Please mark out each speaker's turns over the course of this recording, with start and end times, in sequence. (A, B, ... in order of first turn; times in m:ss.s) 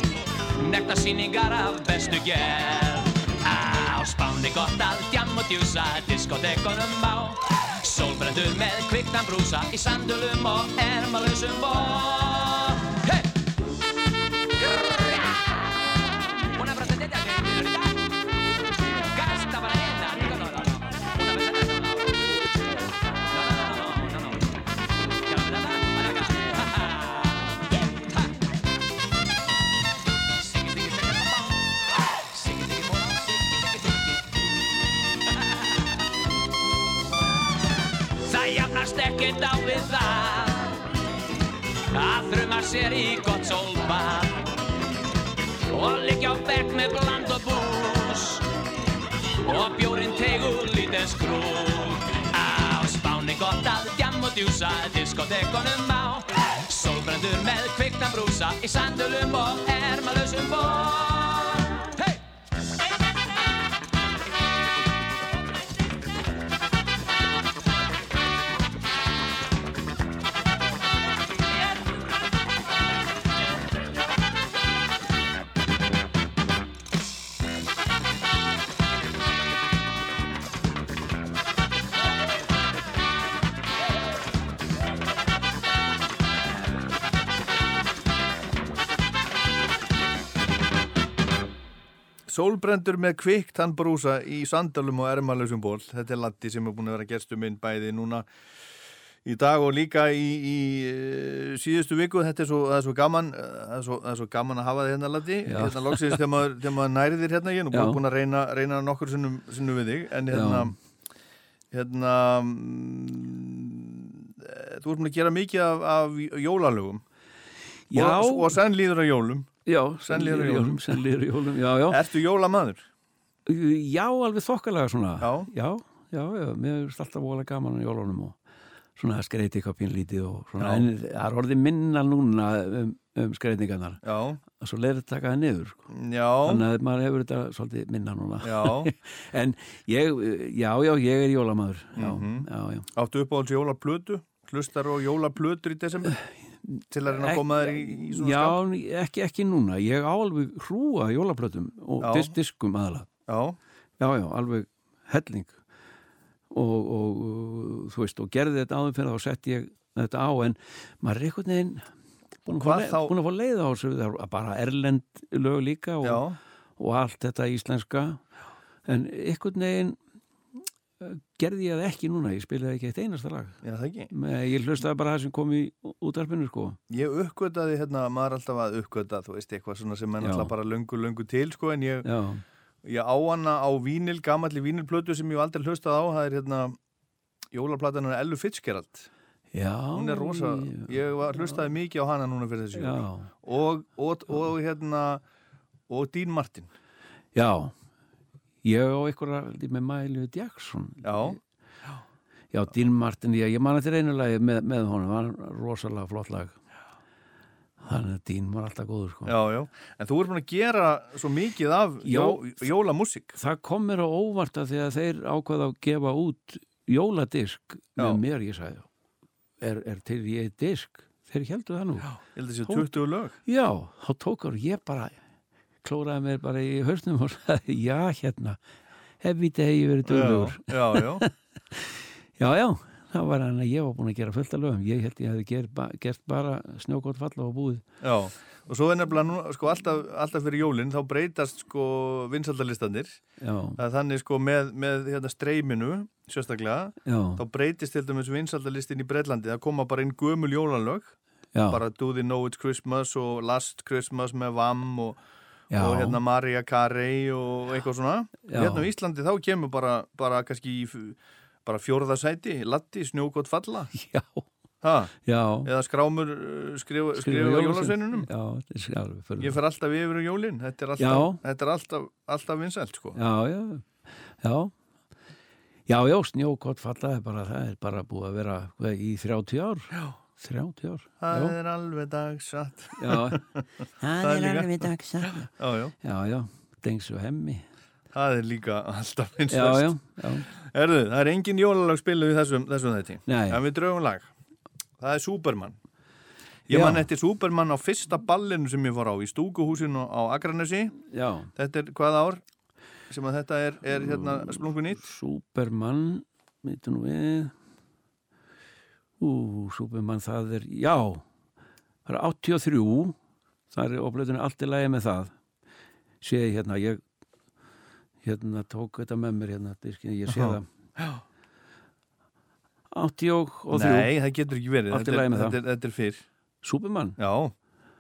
0:00.6-0:13.3 A
0:14.6-0:15.6 A
0:16.5-0:18.0 A
0:19.0-0:22.2 A
0:23.3-0:24.4 A
0:25.2-0:28.2 A
0:30.4-0:31.6 A
0:32.3-0:34.2 A
0:38.2-0:40.8 A
0:41.9-0:44.5 A
0:45.7-0:48.4 A
0:49.4-1:02.2 A
1:32.3-1:38.3 B
1:39.2-1:50.7 B
1:45.5-1:46.2 C
1:47.7-1:48.0 C
1:50.3-1:50.7 C
1:51.7-1:57.0 B
1:57.9-1:58.6 C
1:57.9-1:59.5 B
1:59.7-2:02.0 C
2:00.0-2:01.0 B
2:01.9-2:02.8 B
2:03.5-2:08.4 C
2:05.2-2:05.5 B
2:09.0-2:14.0 C
2:10.6-2:10.9 B
2:14.0-2:14.4 B
2:14.6-2:15.9 C
2:15.9-2:16.6 B
2:16.4-2:22.9 C
2:18.4-2:18.9 B
2:22.0-2:26.1 B
2:26.3-2:33.1 C
2:26.9-2:28.6 B
2:32.0-2:32.3 B
2:33.3-2:33.6 B
2:34.0-2:35.6 C
2:36.5-2:41.9 C
2:42.4-2:46.2 C
2:42.5-2:43.1 B
2:46.0-2:46.4 B
2:46.8-2:48.2 C
2:48.9-2:50.0 C
2:51.0-2:53.6 C
2:53.6-2:54.1 B
2:54.1-2:56.8 C
2:56.9-3:02.1 B
3:00.2-3:00.5 C
3:02.0-3:02.4 C
3:02.8-3:06.8 B
3:07.5-3:09.1 B
3:09.5-3:11.6 C
3:10.0-3:15.2 B
3:12.8-3:13.3 C
3:15.9-3:16.7 B
3:17.4-3:17.7 C
3:18.6-3:21.4 C
3:21.0-3:21.4 B
3:22.5-3:26.6 C
3:27.8-3:29.3 C
3:29.3-3:33.4 B
3:32.0-3:32.6 C
3:33.4-3:38.9 C
3:39.6-3:42.1 C
3:42.2-3:43.4 B
3:42.7-3:42.9 C
3:43.5-3:45.2 C
3:45.8-3:48.6 C
3:49.2-3:57.8 C
3:50.1-3:51.2 B
3:58.0-4:03.2 B
4:03.4-4:03.8 C
4:03.8-4:11.2 B
4:07.1-4:07.4 C
4:11.6-4:11.8 C
4:11.7-4:15.2 B
4:15.7-4:16.2 C
4:15.7-4:23.9 B
4:18.5-4:18.9 C
4:24.0-4:24.5 C
4:24.8-4:25.1 B
4:25.2-4:25.7 C
4:25.6-4:28.3 B
4:27.2-4:29.6 C
4:29.4-4:33.2 B
4:31.0-4:31.4 C
4:33.2-4:34.7 C
4:35.9-4:41.6 C
4:41.2-4:43.7 B
4:43.0-4:43.4 C
4:44.0-4:45.3 A
4:44.2-4:44.8 B
4:44.3-4:44.8 C
4:45.5-4:45.9 B
4:46.0-4:47.6 C
4:48.1-4:49.9 B
4:49.5-4:50.5 C
4:50.5-4:54.3 B
4:53.3-4:53.6 C
4:55.0-4:55.8 B
4:56.7-5:00.9 B
4:56.7-4:57.1 C
5:01.1-5:01.5 C
5:01.6-5:02.4 B
5:03.1-5:05.0 B
5:03.9-5:07.5 C
5:09.2-5:11.2 C
5:12.1-5:13.2 C
5:13.7-5:15.3 C
5:16.2-5:17.0 C
5:18.2-5:20.7 C
5:20.3-5:21.2 B
5:22.9-5:24.1 C
5:23.7-5:26.2 B
5:24.9-5:25.6 C
5:26.6-5:27.2 C
5:27.2-5:27.5 B